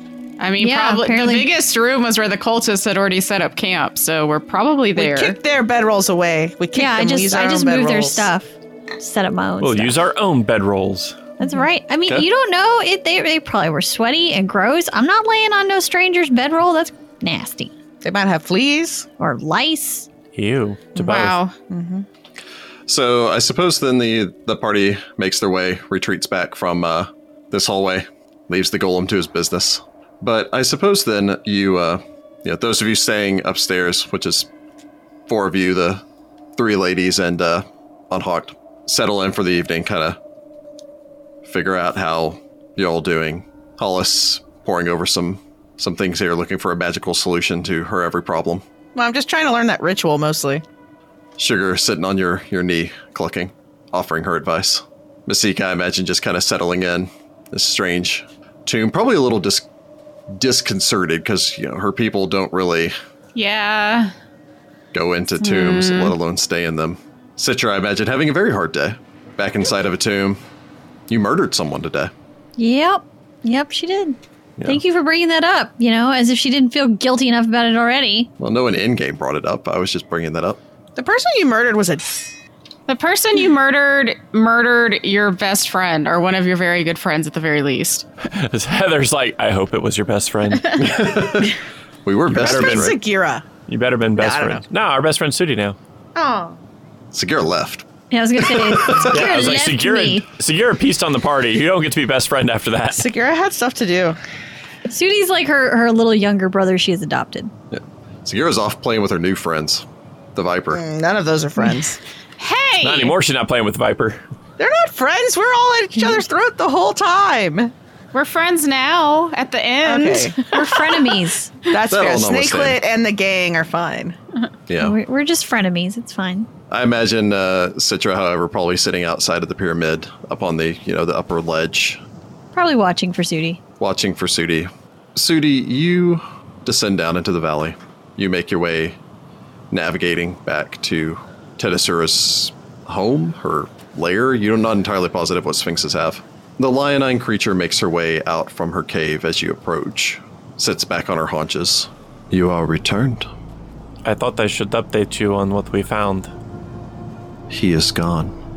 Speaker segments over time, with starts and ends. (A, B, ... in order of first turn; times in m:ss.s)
0:00.4-0:05.4 A
0:00.6-0:01.5 B
0:05.0-0:08.3 C
0:06.8-0:10.0 B
0:09.6-0:11.2 D
0:11.4-0:17.7 B
0:18.0-0:19.1 C
0:19.2-0:20.1 B
0:20.3-0:21.4 D
0:21.0-0:21.6 A
0:21.7-0:22.1 C
0:22.9-0:34.5 E
0:35.3-0:36.0 E
0:36.6-0:40.2 E
0:41.4-0:48.6 E
0:49.0-0:50.6 C
0:51.4-0:59.7 E
1:00.3-1:02.9 E
1:03.4-1:04.1 A
1:04.9-1:10.4 E
1:05.4-1:06.2 A
1:11.1-1:12.1 E
1:12.6-1:18.3 B
1:18.4-1:20.6 E
1:21.0-1:22.3 C
1:22.9-1:28.1 A
1:28.2-1:30.8 D
1:30.7-1:33.0 E
1:32.3-1:33.4 C
1:32.3-1:33.0 D
1:33.7-1:35.8 D
1:34.2-1:34.6 C
1:36.2-1:36.6 C
1:37.1-1:39.4 E
1:38.1-1:40.3 B
1:39.0-1:43.1 D
1:43.0-1:44.2 C
1:44.9-1:47.5 B
1:47.7-1:50.8 E
1:50.7-1:52.0 C
1:52.4-1:53.2 A
1:52.8-1:54.2 D
1:54.6-1:57.7 C
1:58.1-2:00.9 A
1:59.8-2:00.4 C
2:00.5-2:01.5 B
2:01.7-2:04.2 C
2:01.9-2:02.8 E
2:04.7-2:05.0 E
2:04.8-2:06.5 B
2:06.7-2:12.0 E
2:12.5-2:13.6 B
2:13.8-2:19.0 E
2:19.7-2:33.3 E
2:34.0-2:36.3 D
2:37.5-2:38.3 E